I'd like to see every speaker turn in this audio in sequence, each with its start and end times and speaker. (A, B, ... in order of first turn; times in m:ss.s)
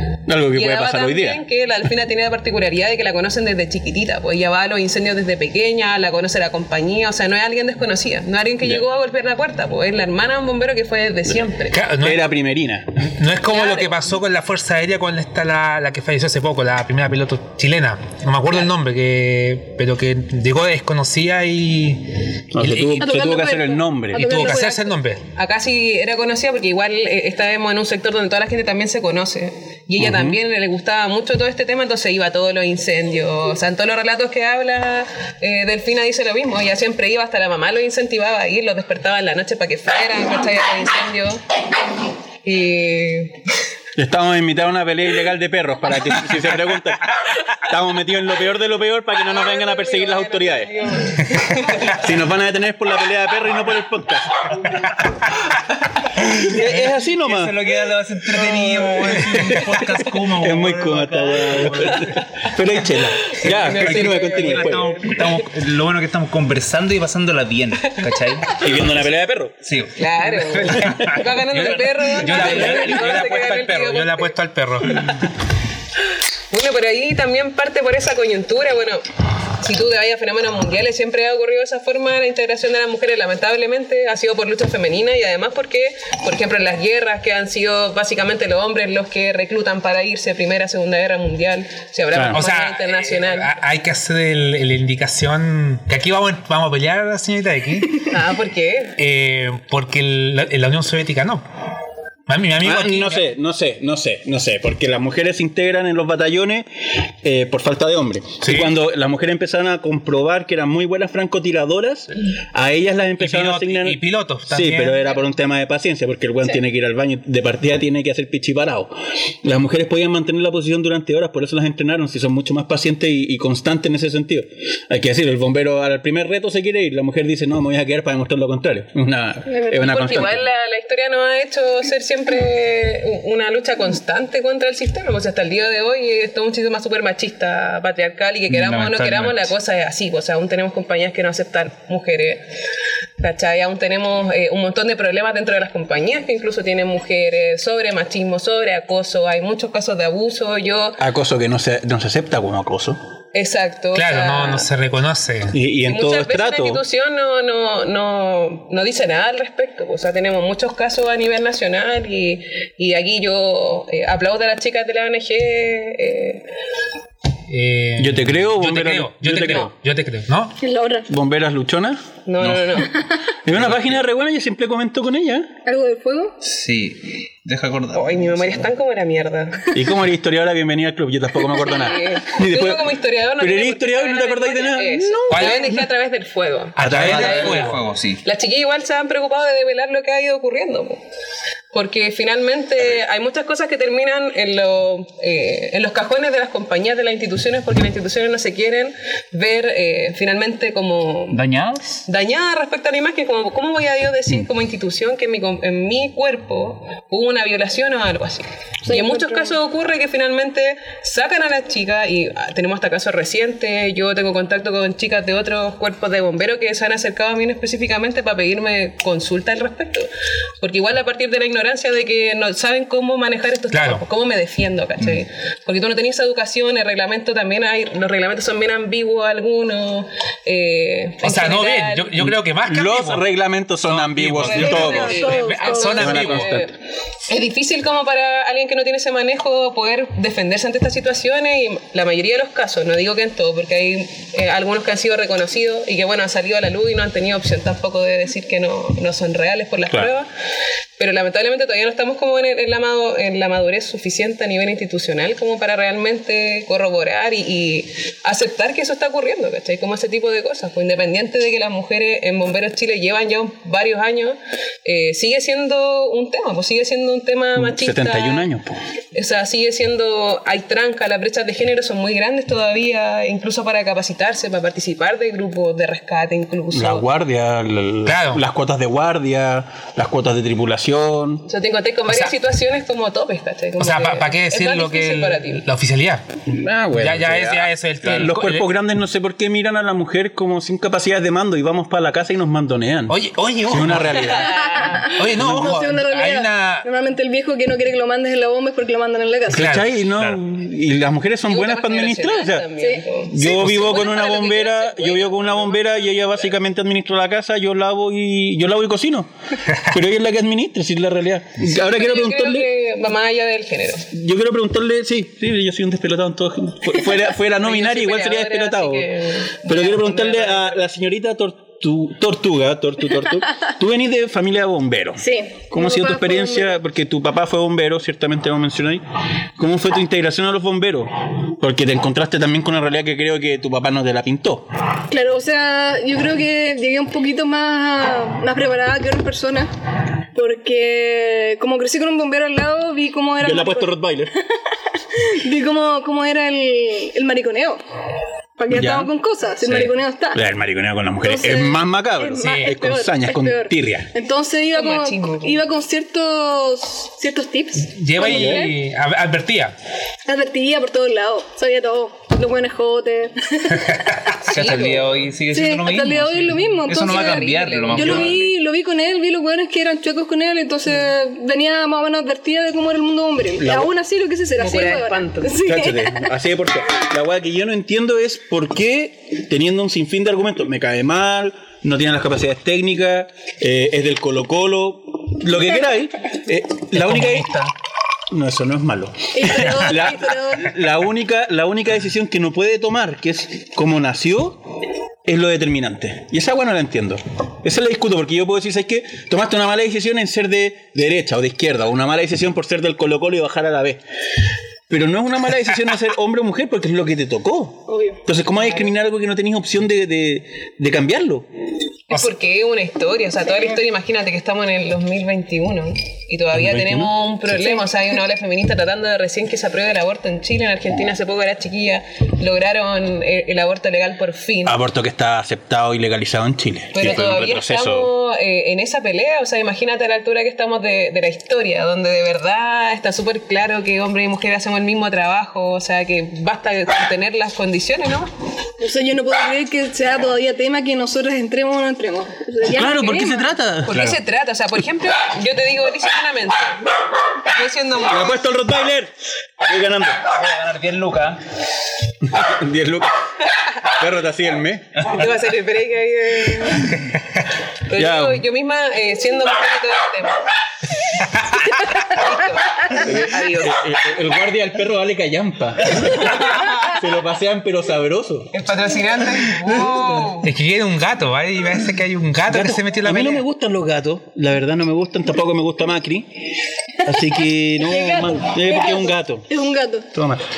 0:00.3-0:01.4 A
0:00.5-0:11.8 B
0:11.7-0:12.2 C
0:12.0-0:12.9 A
0:13.0-0:23.1 C
0:13.4-0:14.1 B
0:22.5-0:24.5 A
0:23.0-0:25.0 D
0:24.1-0:25.2 C
0:25.4-0:41.4 B
0:30.0-0:30.4 A
0:42.4-0:43.4 B
0:44.0-0:50.7 A
0:49.2-0:52.0 B
0:51.7-0:54.7 A
0:56.3-0:57.6 A
0:56.5-1:02.2 E
0:58.5-0:59.2 B
0:59.2-0:59.6 A
1:00.3-1:05.0 A
1:03.2-1:05.4 B
1:03.5-1:08.9 E
1:08.5-1:09.6 A
1:09.6-1:10.0 E
1:10.0-1:14.4 B
1:10.3-1:15.2 C
1:12.3-1:13.1 E
1:16.5-1:19.1 B
1:19.6-1:33.6 B
1:32.1-1:32.4 A
1:32.3-1:38.1 C
1:38.1-1:39.0 B
1:39.0-1:41.4 C
1:42.3-1:43.2 C
1:42.6-1:46.7 A
1:47.2-2:10.5 A
1:48.4-1:48.7 C
1:53.2-1:55.1 C
2:09.6-2:09.8 D
2:09.7-2:22.4 B
2:18.5-2:19.4 E
2:23.2-2:31.0 B
2:31.0-2:33.0 A
2:33.3-2:34.7 B
2:33.9-2:35.6 C
2:35.5-2:36.8 A
2:35.8-2:46.5 B
2:47.5-2:50.6 C
2:48.0-2:49.7 A
2:50.6-2:51.1 D
2:51.1-2:52.9 A
2:52.3-2:53.0 B
2:53.4-2:55.6 A
2:55.6-2:56.4 D
2:56.4-2:58.6 E
2:57.9-2:59.7 B
2:59.7-3:05.7 A
3:01.7-3:11.0 B
3:05.3-3:05.9 C
3:06.8-3:07.8 C
3:06.8-3:08.2 E
3:06.8-3:07.7 A
3:11.7-3:21.4 B
3:21.3-3:22.0 E
3:22.1-3:40.1 B
3:28.9-3:29.6 D
3:40.6-3:52.2 B
3:43.7-3:44.0 C
3:51.2-3:53.2 C
3:52.2-3:55.3 A
3:53.9-3:56.6 C
3:54.4-3:56.1 D
3:54.5-4:10.3 B
3:56.0-3:56.7 A
4:11.0-4:28.5 B
4:27.6-4:28.8 A
4:29.1-4:37.1 B
4:36.7-4:41.5 A
4:38.1-4:38.4 C
4:41.5-4:45.6 B
4:43.8-4:46.2 C
4:46.5-4:54.6 A
4:46.9-4:48.7 C
4:53.1-4:54.4 C
4:54.3-4:55.1 B
4:54.5-4:59.6 D
4:55.1-4:56.9 C
4:55.4-4:55.8 A
4:59.5-5:02.7 A
4:59.5-4:59.9 C
5:00.1-5:00.4 E
5:01.5-5:05.8 B
5:03.3-5:12.7 A
5:11.6-5:14.1 B
5:14.1-5:19.1 A
5:17.6-5:20.8 B
5:19.6-5:29.0 A
5:25.2-5:26.8 D
5:29.6-5:34.7 A
5:35.1-5:39.7 D
5:40.3-5:43.9 D
5:43.4-5:44.3 A
5:44.9-5:47.8 D
5:48.6-5:50.4 D
5:48.7-5:54.1 A
5:51.2-5:58.8 D
5:52.4-5:52.7 C
5:54.7-5:55.6 B
5:57.8-5:59.8 C
5:58.2-5:58.7 A
6:00.3-6:04.3 D
6:04.4-6:05.3 B
6:04.4-6:08.6 E
6:05.5-6:16.3 D
6:07.1-6:08.2 B
6:08.0-6:08.3 A
6:13.6-6:13.9 A
6:14.6-6:15.6 B
6:15.6-6:27.6 A
6:27.0-6:27.6 C
6:28.3-6:34.6 A
6:29.3-6:30.7 D
6:35.2-6:44.0 A
6:44.9-6:51.5 A
6:47.9-6:48.2 D
6:52.1-7:04.8 B
6:56.5-6:57.2 A
7:04.6-7:08.1 A
7:06.9-7:18.3 B
7:18.8-7:23.4 D
7:22.7-7:24.2 A
7:23.9-7:26.8 B
7:27.4-7:28.4 B
7:28.0-7:30.3 A
7:30.3-7:31.4 E
7:32.2-7:33.1 A
7:33.8-7:35.0 A
7:35.1-7:37.0 B
7:37.9-7:40.5 B
7:38.0-7:38.4 A
7:41.7-7:43.9 B
7:42.9-7:48.5 A
7:48.5-7:50.5 B
7:49.8-7:50.1 A
7:50.4-7:53.4 C
7:52.5-7:56.4 A
7:57.0-7:59.5 A
7:57.8-8:00.1 D
8:00.1-8:00.5 A